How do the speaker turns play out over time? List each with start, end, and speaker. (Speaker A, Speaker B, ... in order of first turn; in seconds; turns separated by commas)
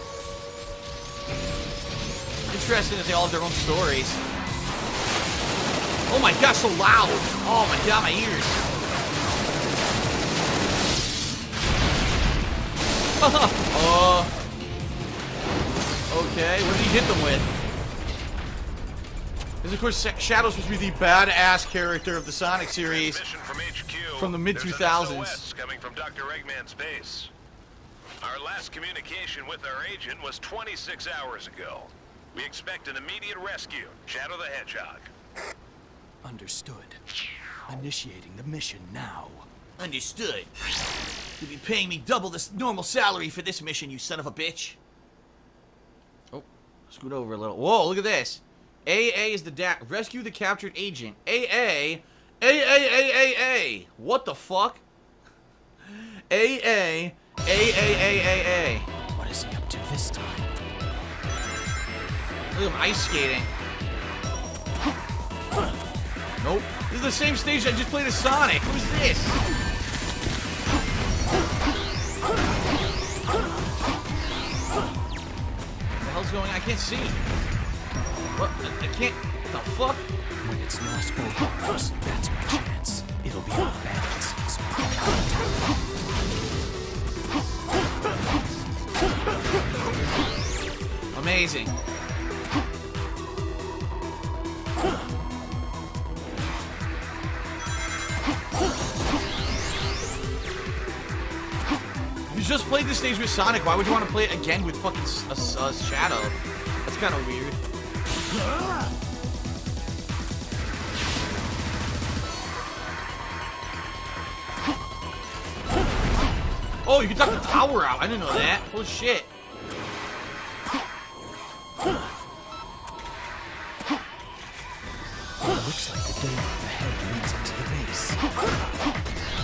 Speaker A: 2.5-4.2, Speaker A: 6.1-8.6, Speaker A: 13.2-14.3, Speaker A: 16.1-17.5, Speaker A: 19.6-23.2, Speaker B: 22.8-27.3, Speaker A: 24.2-25.5, Speaker B: 28.2-35.1, Speaker C: 36.2-37.0, Speaker C: 37.7-39.5, Speaker A: 39.8-40.5, Speaker A: 41.4-44.8, Speaker A: 46.3-54.8, Speaker A: 55.9-58.9, Speaker C: 59.1-60.5, Speaker A: 62.5-63.5, Speaker A: 66.4-69.4, Speaker A: 76.0-77.2, Speaker A: 78.4-80.1, Speaker C: 80.4-85.5, Speaker A: 91.1-91.7, Speaker A: 102.3-107.6, Speaker A: 116.9-119.3, Speaker C: 125.4-128.2